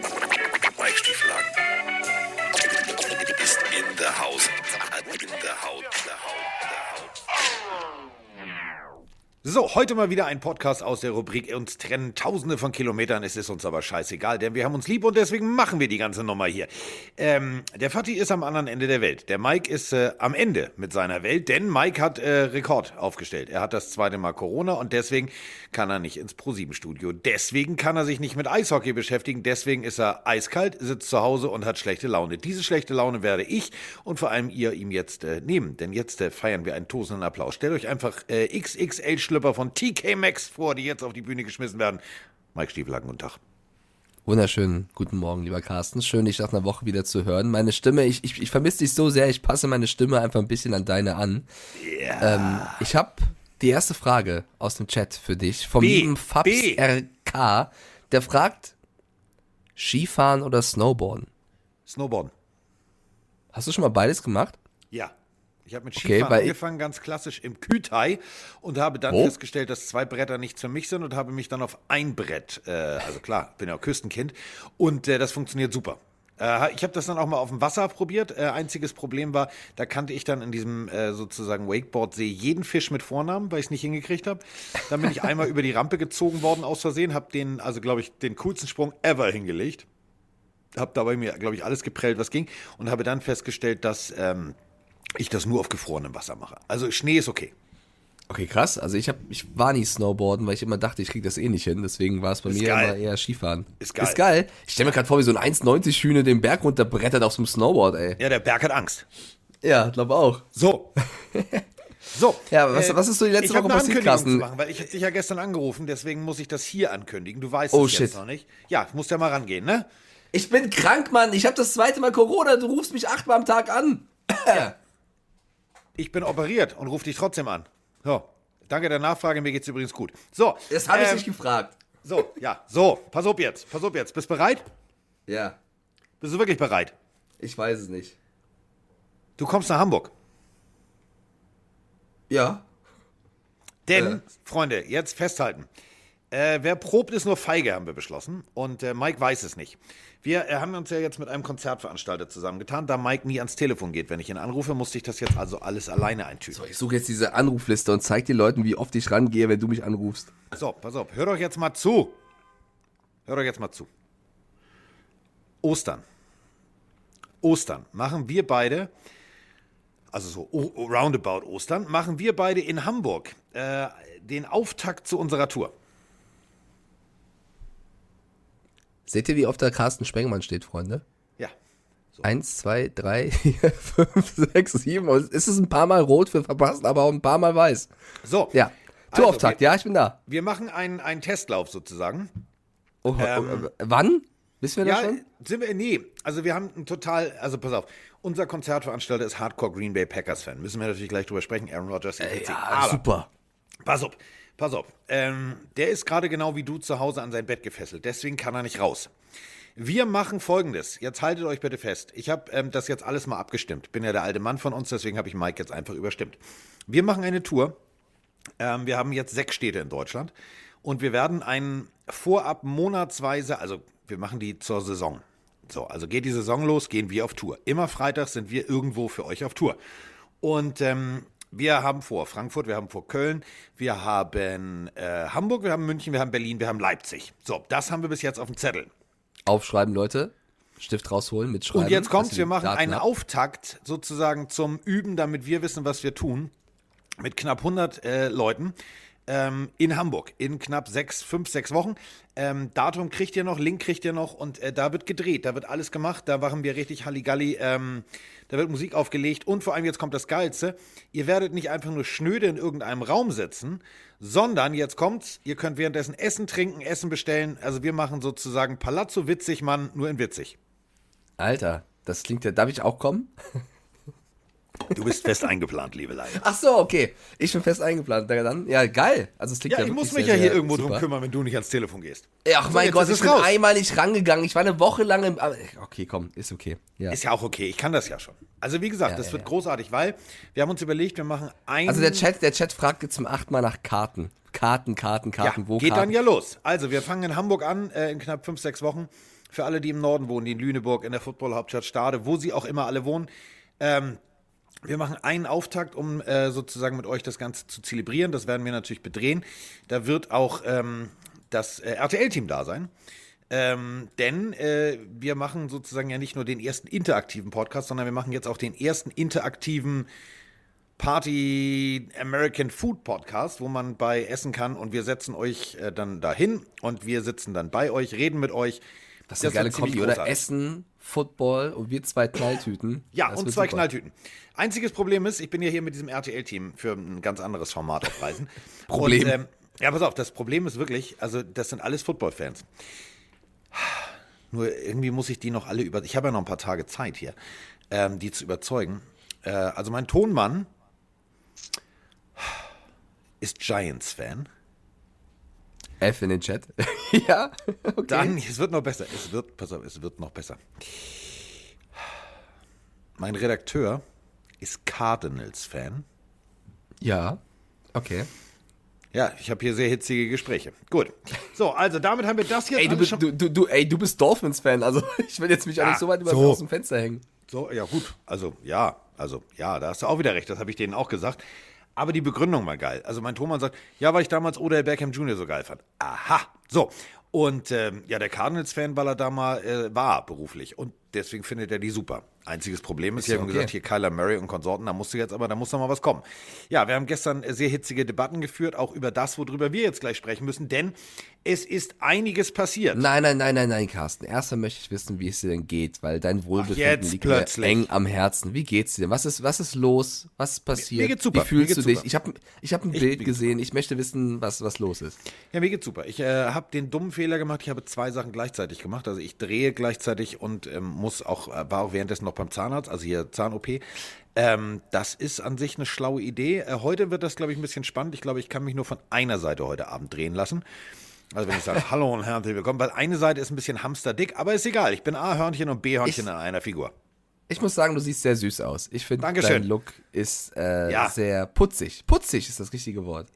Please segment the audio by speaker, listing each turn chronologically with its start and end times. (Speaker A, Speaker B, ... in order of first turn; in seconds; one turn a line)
Speaker A: 0.8-1.5
Speaker A: 3.3-7.0
Speaker B: 9.4-42.0
Speaker B: 42.5-43.4
Speaker C: 44.2-51.5
Speaker B: 51.8-52.8
Speaker C: 52.2-58.7
Speaker B: 55.8-56.8
Speaker C: 59.8-61.3
Speaker B: 61.9-62.3
Speaker C: 63.5-64.6
Speaker B: 65.7-89.8
Speaker C: 66.0-66.5
Speaker C: 69.1-69.3
Speaker B: 90.7-94.5
Speaker B: 95.2-97.5
Speaker C: 98.3-108.2
Speaker B: 102.5-103.0
Speaker B: 103.8-104.2
Speaker B: 108.2-109.0
Speaker C: 109.6-110.5
Speaker B: 110.5-110.9
Speaker C: 111.2-111.6
Speaker B: 112.1-119.9
Speaker C: 112.5-114.5
Speaker C: 117.7-118.2
Speaker C: 120.3-124.7
Speaker B: 126.0-131.3
Speaker C: 130.7-131.8
Speaker B: 132.0-134.7
Speaker C: 135.3-135.6
Speaker B: 136.2-136.9
Speaker C: 137.4-138.2
Speaker B: 139.4-140.1
Speaker C: 142.3-142.6
Speaker B: 143.8-145.7
Speaker B: 146.3-156.6
Speaker C: 156.5-160.3
Speaker B: 160.5-162.2
Speaker B: 163.3-163.9
Speaker B: 165.6-166.0
Speaker B: 167.4-168.9
Speaker B: 170.1-175.7
Speaker C: 179.1-181.0
Speaker C: 182.2-187.9
Speaker B: 188.2-188.6
Speaker C: 188.5-190.2
Speaker B: 189.1-189.6
Speaker B: 190.2-192.3
Speaker C: 193.0-195.2
Speaker B: 193.2-193.7
Speaker B: 194.8-203.0
Speaker C: 202.2-203.3
Speaker B: 203.8-209.1
Speaker B: 209.8-217.8
Speaker B: 218.6-229.8
Speaker B: 230.4-238.9
Speaker C: 239.4-243.0
Speaker B: 241.7-246.5
Speaker B: 247.2-248.7
Speaker B: 249.3-270.6
Speaker C: 271.4-273.3
Speaker B: 274.9-276.4
Speaker C: 276.4-281.0
Speaker B: 279.7-283.5
Speaker C: 282.4-287.2
Speaker B: 287.1-292.3
Speaker C: 289.1-289.5
Speaker C: 291.9-296.1
Speaker B: 295.4-303.3
Speaker B: 303.8-304.2
Speaker B: 304.8-312.9
Speaker B: 313.5-320.1
Speaker B: 321.0-328.8
Speaker C: 329.3-333.8
Speaker B: 329.4-330.4
Speaker B: 333.1-342.7
Speaker C: 338.9-339.4
Speaker B: 343.7-347.3
Speaker B: 347.9-350.7
Speaker B: 353.4-354.5
Speaker C: 356.0-358.4
Speaker B: 358.1-361.3
Speaker B: 363.2-364.0
Speaker B: 364.6-366.1
Speaker C: 367.0-367.4
Speaker C: 367.9-368.3
Speaker B: 369.1-373.2
Speaker C: 372.7-377.2
Speaker B: 375.8-376.6
Speaker B: 377.5-381.4
Speaker B: 381.9-403.0
Speaker C: 393.2-393.7
Speaker C: 402.9-415.2
Speaker B: 406.6-407.9
Speaker B: 410.8-412.1
Speaker B: 412.9-413.5
Speaker B: 415.5-423.8
Speaker B: 424.3-430.6
Speaker B: 431.3-436.9
Speaker C: 437.5-443.3
Speaker B: 439.2-439.7
Speaker B: 440.9-441.1